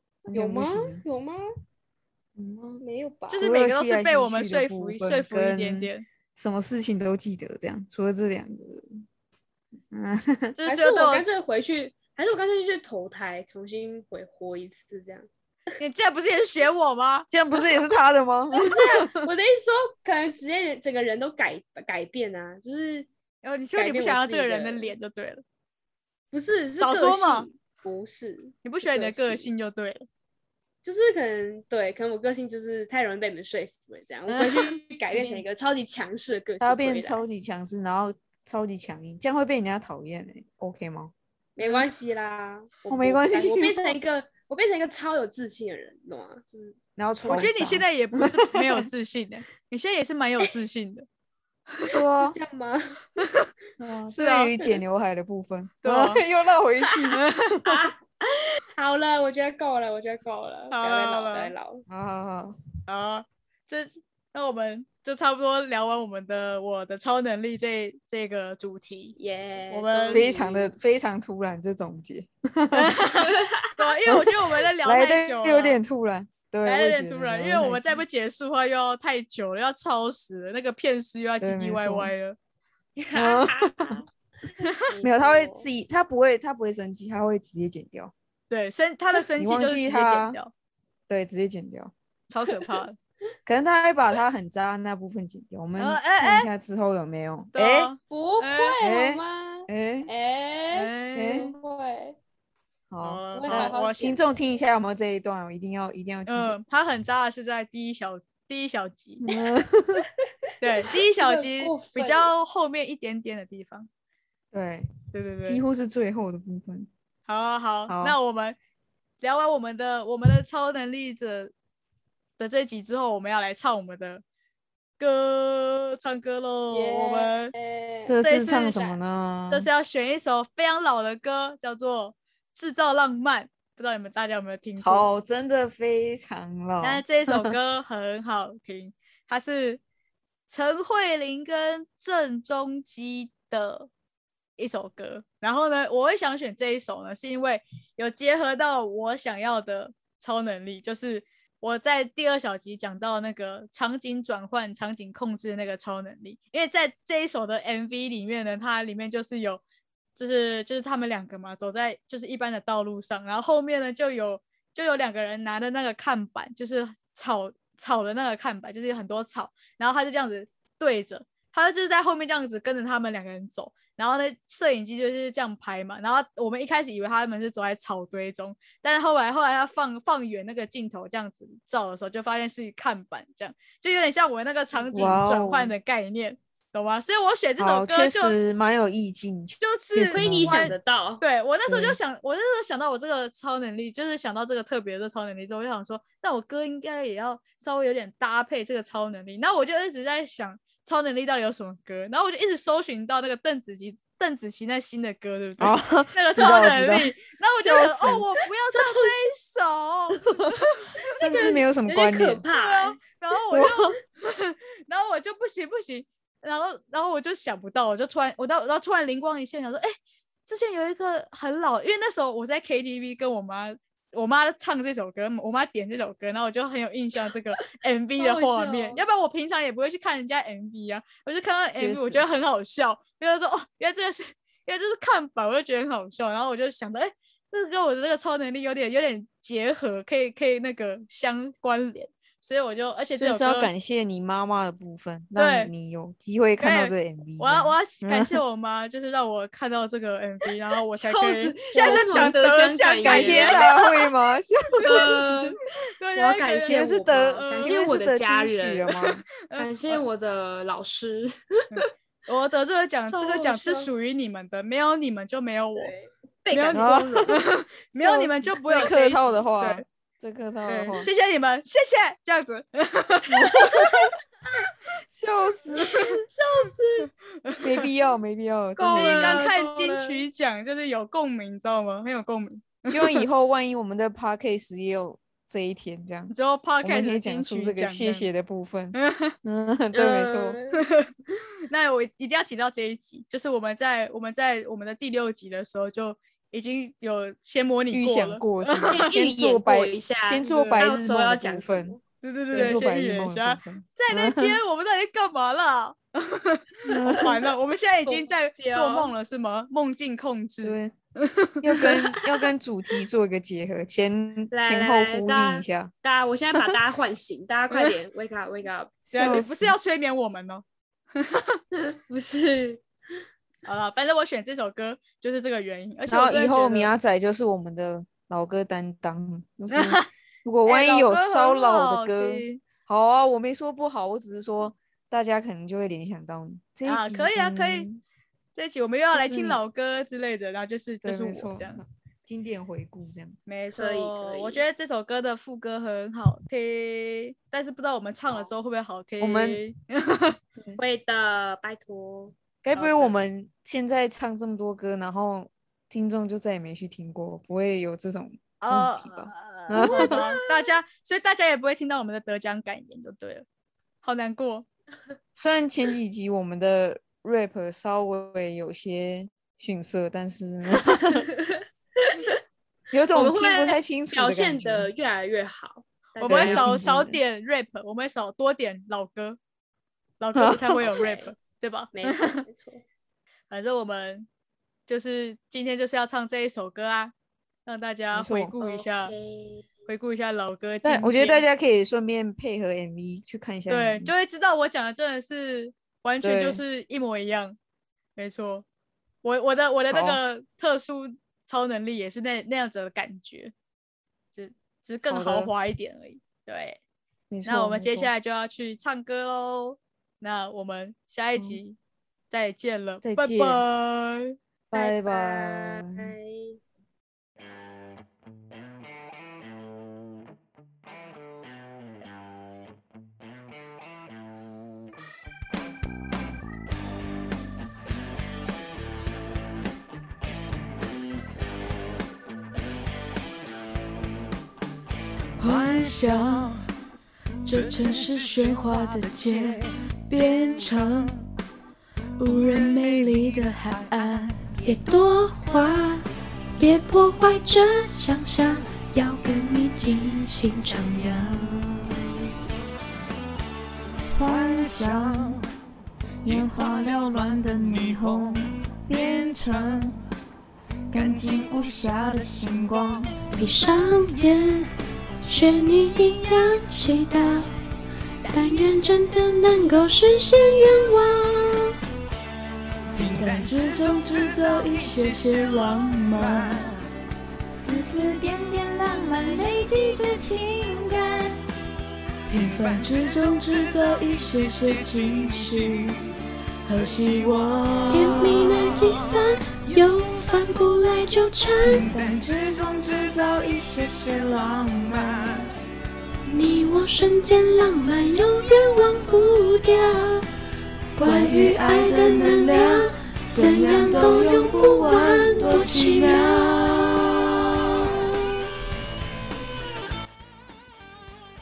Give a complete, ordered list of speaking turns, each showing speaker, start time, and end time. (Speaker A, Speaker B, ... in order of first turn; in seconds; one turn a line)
Speaker A: 0.2-1.4
Speaker B: 0.3-1.0
Speaker B: 2.4-2.8
Speaker A: 2.8-3.5
Speaker C: 3.3-6.0
Speaker B: 3.4-9.0
Speaker B: 9.9-10.6
Speaker C: 10.6-11.2
Speaker A: 10.7-15.3
Speaker C: 15.8-17.3
Speaker B: 17.3-19.3
Speaker A: 18.5-23.1
Speaker C: 23.4-25.4
Speaker A: 23.7-24.9
Speaker A: 26.3-29.5
Speaker C: 26.8-27.5
Speaker C: 28.6-30.1
Speaker A: 30.8-37.2
Speaker B: 34.3-34.7
Speaker C: 35.2-35.4
Speaker B: 36.6-41.1
Speaker A: 41.5-47.5
Speaker B: 42.9-44.0
Speaker B: 47.0-48.9
Speaker C: 47.3-51.0
Speaker B: 51.9-52.4
Speaker A: 51.9-53.0
Speaker C: 53.2-53.5
Speaker B: 53.8-57.4
Speaker C: 54.1-54.5
Speaker C: 55.8-56.2
Speaker C: 57.1-57.7
Speaker A: 57.6-61.8
Speaker C: 60.7-61.5
Speaker B: 61.9-62.6
Speaker C: 62.9-69.2
Speaker A: 69.2-70.7
Speaker C: 69.7-70.3
Speaker B: 70.1-73.0
Speaker C: 72.7-75.8
Speaker A: 73.2-73.7
Speaker B: 74.8-78.0
Speaker C: 76.6-82.4
Speaker B: 81.4-82.1
Speaker A: 83.0-84.1
Speaker B: 83.1-84.0
Speaker A: 84.8-85.7
Speaker B: 85.0-88.1
Speaker C: 88.5-90.5
Speaker B: 89.4-90.4
Speaker B: 91.1-91.9
Speaker C: 92.3-93.0
Speaker B: 93.5-97.9
Speaker C: 95.8-96.5
Speaker C: 97.5-98.7
Speaker A: 98.1-102.2
Speaker B: 98.8-100.1
Speaker C: 100.7-101.5
Speaker B: 101.1-101.5
Speaker B: 102.9-106.6
Speaker C: 103.0-104.2
Speaker A: 103.3-104.3
Speaker C: 106.3-109.2
Speaker B: 109.2-110.0
Speaker C: 110.6-113.9
Speaker A: 111.2-112.3
Speaker B: 114.5-114.9
Speaker C: 115.1-115.6
Speaker B: 115.4-116.9
Speaker C: 117.3-118.5
Speaker B: 117.9-118.2
Speaker C: 119.2-121.5
Speaker C: 122.4-124.2
Speaker C: 125.0-127.5
Speaker A: 126.7-129.0
Speaker B: 128.1-129.7
Speaker C: 128.2-128.9
Speaker C: 129.5-135.1
Speaker B: 134.8-137.5
Speaker C: 136.8-139.8
Speaker C: 140.5-143.9
Speaker C: 144.6-159.6
Speaker C: 160.2-188.3
Speaker B: 184.9-185.7
Speaker B: 187.6-190.8
Speaker C: 189.6-211.2
Speaker A: 190.1-191.2
Speaker B: 191.7-192.0
Speaker B: 205.6-208.2
Speaker A: 208.7-209.3
Speaker A: 211.0-213.0
Speaker B: 211.2-212.4
Speaker C: 212.5-243.7
Speaker B: 213.5-213.9
Speaker A: 228.2-229.0
Speaker B: 231.8-232.2
Speaker B: 243.2-248.4
Speaker C: 245.3-245.7
Speaker C: 246.6-253.8
Speaker A: 250.9-253.8
Speaker B: 251.8-252.4
Speaker B: 253.0-255.6
Speaker C: 254.8-255.1
Speaker A: 254.8-255.6
Speaker C: 256.0-256.8
Speaker A: 256.1-258.9
Speaker B: 256.6-259.2
Speaker C: 257.4-257.8
Speaker C: 259.5-260.0
Speaker A: 259.6-261.3
Speaker C: 261.7-265.9
Speaker A: 263.1-263.9
Speaker A: 265.8-267.4
Speaker C: 266.5-269.8
Speaker B: 266.7-271.1
Speaker C: 270.7-274.1
Speaker B: 273.3-274.1
Speaker B: 275.1-276.2
Speaker A: 275.7-277.1
Speaker B: 277.6-279.5
Speaker A: 278.8-280.2
Speaker C: 278.9-283.2
Speaker B: 282.9-290.6
Speaker C: 286.3-288.3
Speaker C: 288.9-289.3
Speaker A: 289.9-290.8
Speaker C: 290.7-291.1
Speaker C: 291.7-299.0
Speaker B: 297.9-301.9
Speaker A: 298.9-302.8
Speaker C: 300.5-300.9
Speaker C: 302.2-312.4
Speaker B: 302.5-304.6
Speaker B: 306.9-307.4
Speaker A: 308.1-309.1
Speaker B: 310.6-310.9
Speaker B: 311.6-315.9
Speaker A: 314.5-319.4
Speaker B: 319.1-319.8
Speaker C: 319.1-320.6
Speaker C: 321.1-321.6
Speaker A: 321.8-322.8
Speaker C: 323.6-326.9
Speaker B: 326.1-338.0
Speaker C: 329.7-330.1
Speaker C: 330.7-332.6
Speaker C: 336.8-337.9
Speaker C: 338.5-341.8
Speaker B: 339.1-339.6
Speaker B: 341.0-343.4
Speaker C: 343.5-350.4
Speaker A: 343.7-344.6
Speaker B: 349.2-349.6
Speaker B: 350.6-350.8
Speaker A: 350.8-352.4
Speaker B: 352.6-360.4
Speaker C: 352.7-353.2
Speaker C: 358.6-363.4
Speaker A: 359.7-360.7
Speaker C: 364.0-364.7
Speaker B: 365.3-371.3
Speaker A: 370.8-372.4
Speaker B: 372.9-374.9
Speaker A: 373.1-376.9
Speaker C: 376.2-379.4
Speaker B: 376.2-377.2
Speaker C: 380.2-382.4
Speaker B: 380.3-381.0
Speaker A: 380.8-381.3
Speaker A: 381.9-382.8
Speaker C: 383.5-384.3
Speaker C: 384.9-387.1
Speaker C: 387.6-389.1
Speaker B: 388.1-388.5
Speaker A: 388.6-389.9
Speaker C: 389.9-391.4
Speaker B: 390.8-394.1
Speaker C: 393.7-397.6
Speaker B: 396.2-396.6
Speaker C: 398.1-398.6
Speaker C: 399.2-403.5
Speaker B: 399.9-400.2
Speaker C: 404.3-406.8
Speaker B: 405.1-405.5
Speaker B: 407.3-408.1
Speaker C: 407.4-411.8
Speaker C: 412.3-414.3
Speaker B: 413.0-413.6
Speaker B: 414.7-416.1
Speaker A: 414.7-416.6
Speaker D: 435.4-436.6
Speaker D: 437.4-441.2
Speaker D: 442.2-444.6
Speaker E: 444.6-446.1
Speaker E: 446.6-451.5
Speaker D: 454.2-455.4
Speaker D: 456.2-459.9
Speaker D: 460.9-463.5
Speaker E: 463.4-464.7
Speaker E: 465.2-467.5
Speaker E: 468.2-471.7
Speaker D: 472.9-476.8
Speaker B: 477.5-481.3
Speaker D: 479.4-480.2
Speaker D: 482.3-486.0
Speaker D: 486.6-488.8
Speaker E: 487.9-491.9
Speaker B: 491.7-494.4
Speaker D: 491.8-495.4
Speaker E: 496.2-500.2
Speaker E: 501.0-506.4
Speaker D: 501.0-507.1